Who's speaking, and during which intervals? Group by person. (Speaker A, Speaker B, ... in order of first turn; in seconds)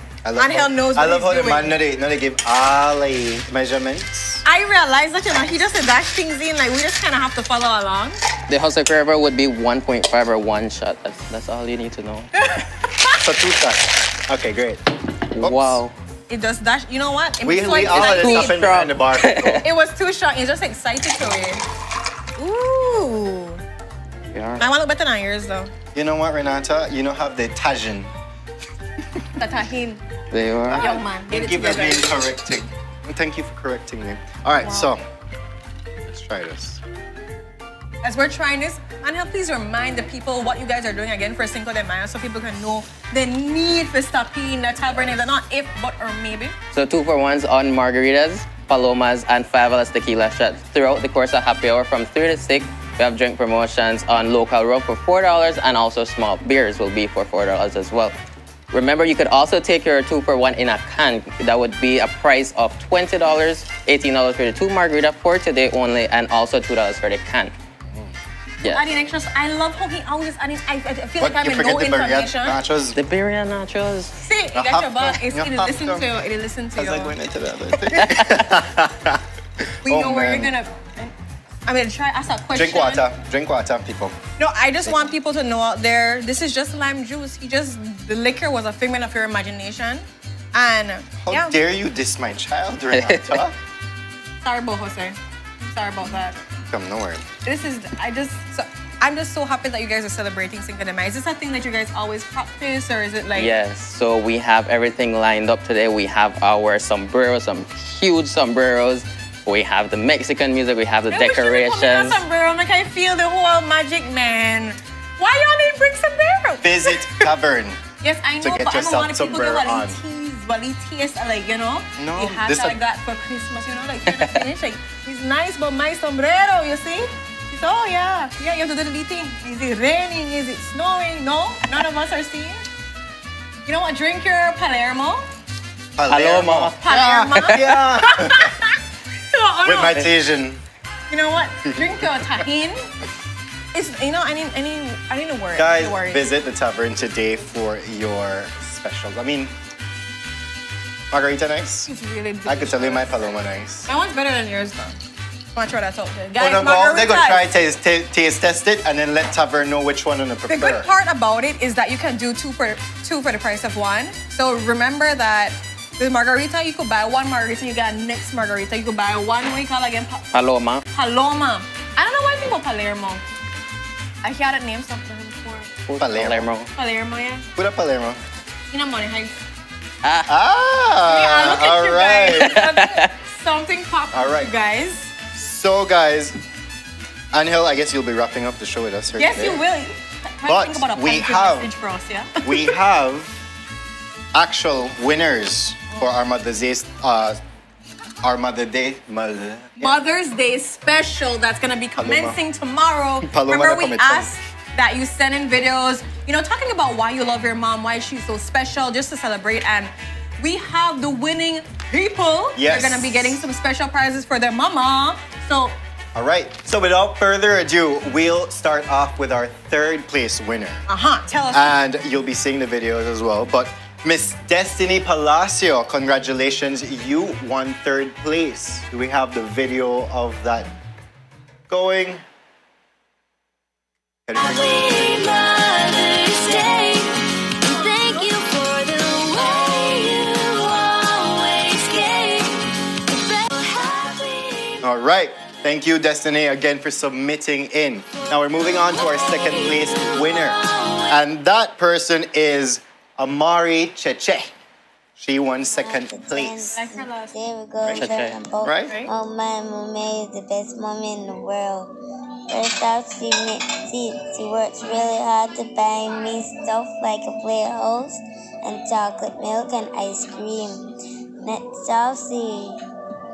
Speaker A: 0.2-4.4, 13.2-14.8, 15.4-15.8, 17.4-19.7, 25.9-28.1, 30.7-35.0, 36.1-36.8, 71.2-73.0, 74.5-76.1, 76.8-79.2, 79.8-80.5, 82.5-84.2, 84.8-85.1, 91.2-93.6, 96.6-97.3, 116.6-117.8, 118.4-120.0, 122.0-122.8, 136.0-138.5, 139.7-140.6, 145.6-149.5, 151.1-151.9, 152.4-153.9, 156.4-160.9, 176.0-176.5, 177.6-178.2, 180.3-182.6, 184.1-184.5, 185.3-186.4, 187.3-189.6, 190.5-191.7, 192.4-193.4, 194.3-197.4, 198.2-200.0, 202.0-202.4, 203.2-204.3, 212.6-213.4, 216.2-220.8, 221.5-230.7, 231.7-232.2, 234.3-235.7, 244.8-254.5, 255.2-256.7, 257.8-259.0
Speaker B: 0.4-1.8, 4.4-8.2, 12.3-13.2, 16.3-18.6, 19.6-21.6, 22.4-23.6, 24.6-25.7, 29.4-30.0, 30.8-32.2, 34.6-34.9, 38.0-46.5, 68.6-72.6, 74.2-77.1, 79.8-81.1, 81.7-83.1, 84.4-91.6, 94.4-96.4, 97.4-103.5, 111.1-117.2, 118.0-132.6, 133.6-135.2, 136.8-138.8, 139.3-140.0, 141.1-142.8, 143.7-146.2, 151.9-153.2, 153.8-154.9, 155.5-157.5, 160.5-170.3, 170.9-173.2, 174.2-175.7, 176.7-177.4, 178.7-179.4, 181.1-185.1, 189.2-192.7, 199.8-215.7, 220.9-221.8, 256.7-257.4
Speaker C: 8.5-12.3, 15.3-15.9, 17.9-19.6, 24.3-24.6, 30.3-30.9, 46.7-58.1, 58.7-67.5, 72.9-74.2, 77.9-78.4, 92.9-93.4, 103.3-112.2, 136.1-136.8, 170.3-170.8, 175.9-176.7, 180.0-180.3, 182.4-183.1, 257.9-258.4
Speaker D: 236.4-236.8, 238.1-238.9, 255.6-261.9, 262.5-270.9, 271.4-272.8